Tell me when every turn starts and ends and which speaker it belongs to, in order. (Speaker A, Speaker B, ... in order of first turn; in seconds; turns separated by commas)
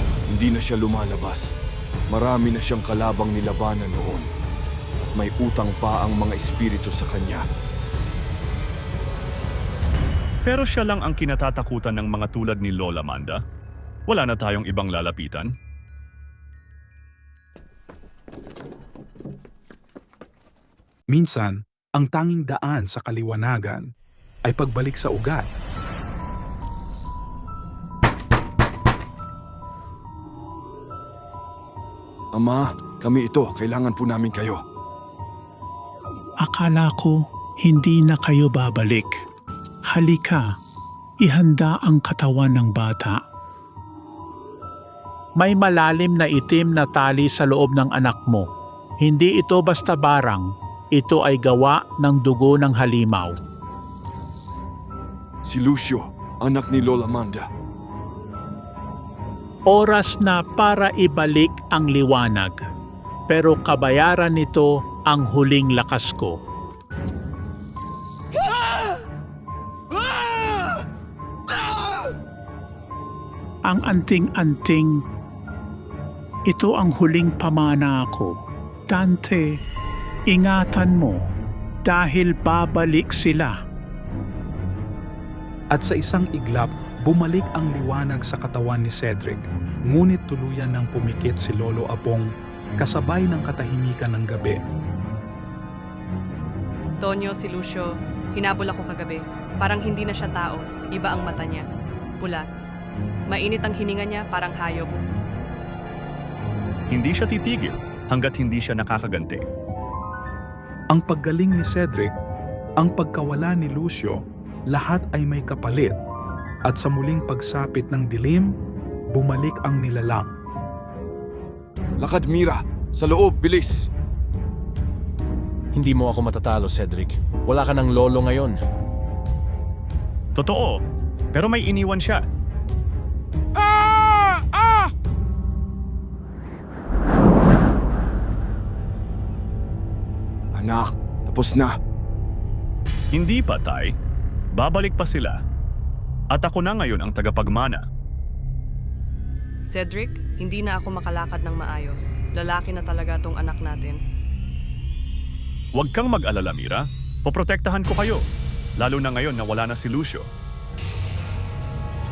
Speaker A: 0.3-1.5, Speaker A: 2.1-4.2, Speaker A: 5.1-7.4, Speaker B: 10.4-13.4, Speaker B: 14.1-15.5, Speaker C: 21.1-23.9, Speaker C: 24.5-25.5, Speaker A: 32.3-34.6, Speaker D: 36.4-39.1, Speaker D: 39.9-40.4, Speaker D: 41.2-43.2, Speaker D: 45.4-48.5, Speaker D: 49.0-53.4, Speaker A: 55.4-57.5, Speaker D: 59.7-62.6, Speaker D: 63.3-66.4, Speaker D: 73.7-75.0, Speaker D: 76.5-78.3, Speaker D: 78.9-79.4, Speaker D: 80.3-81.2, Speaker D: 81.8-83.5, Speaker C: 85.7-92.3, Speaker C: 92.8-94.6, Speaker E: 97.0-101.6, Speaker E: 103.3-104.9, Speaker B: 106.9-109.4, Speaker C: 110.9-112.1, Speaker C: 112.8-114.2, Speaker C: 114.7-115.9, Speaker C: 116.7-118.5, Speaker C: 119.1-120.3, Speaker A: 122.0-123.9, Speaker F: 125.7-128.6, Speaker B: 130.4-130.8, Speaker B: 131.3-132.2, Speaker A: 133.6-134.7, Speaker A: 140.5-141.7, Speaker B: 143.1-143.9, Speaker B: 144.6-145.4, Speaker B: 146.3-147.8, Speaker E: 149.7-154.0, Speaker B: 155.8-158.2, Speaker B: 158.8-160.3